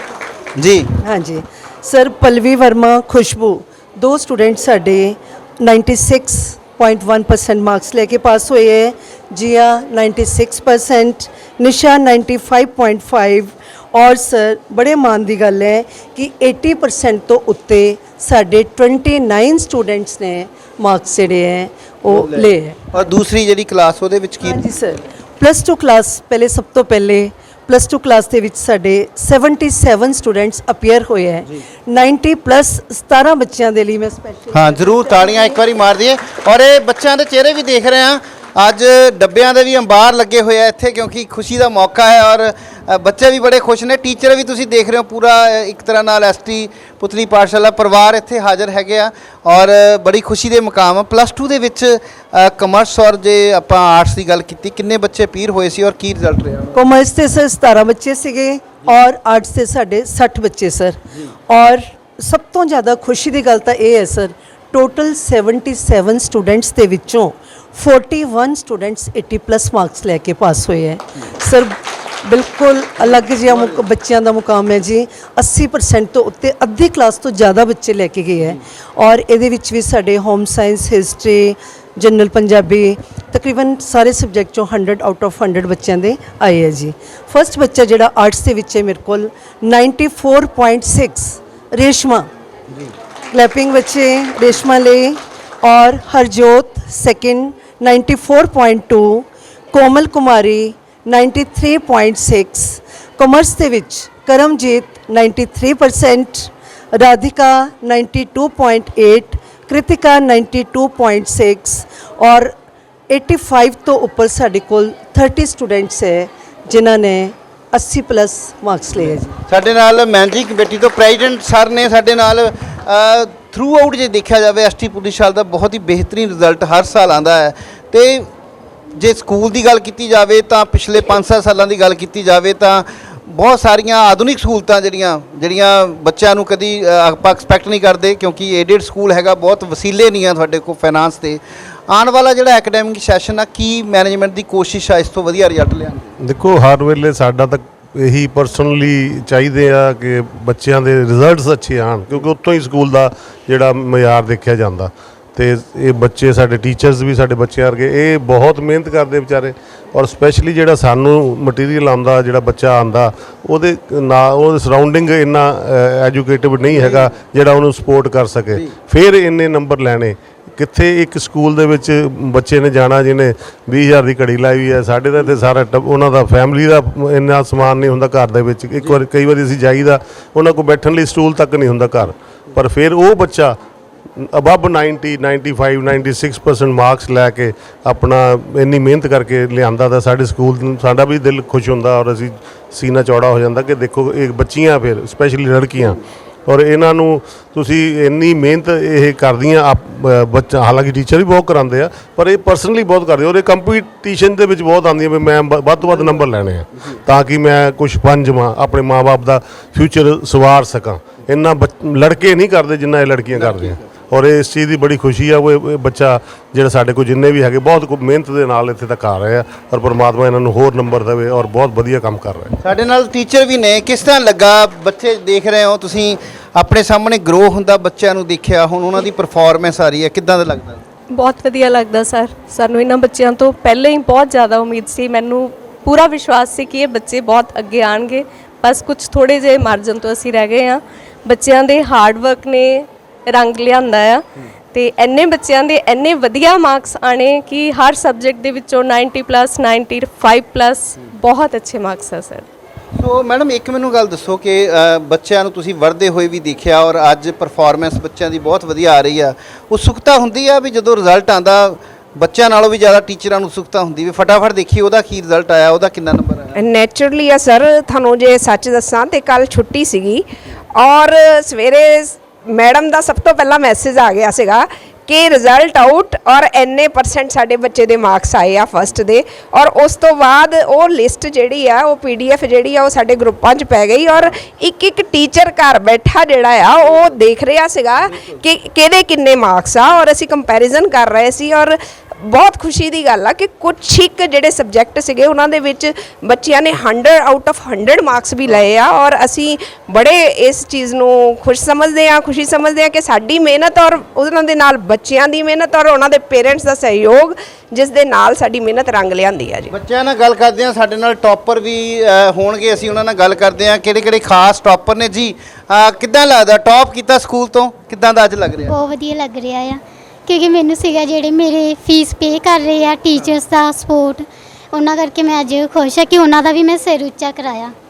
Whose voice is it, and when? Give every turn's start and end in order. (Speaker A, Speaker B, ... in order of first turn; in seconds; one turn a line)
Speaker A: 0.6-0.9
Speaker B: 1.0-23.0
Speaker A: 22.1-24.6
Speaker B: 24.4-35.6
Speaker A: 34.5-56.8
Speaker B: 56.7-92.3
Speaker B: 93.3-112.5
Speaker B: 113.1-119.3
Speaker A: 119.5-128.3
Speaker A: 128.9-146.1
Speaker C: 146.2-183.6
Speaker C: 184.2-222.6
Speaker A: 222.6-230.8
Speaker D: 231.1-244.2
Speaker D: 244.7-252.4
Speaker A: 253.0-266.6
Speaker E: 266.6-270.2
Speaker E: 270.8-291.8
Speaker E: 292.3-309.7
Speaker A: 309.7-318.7
Speaker F: 318.6-327.7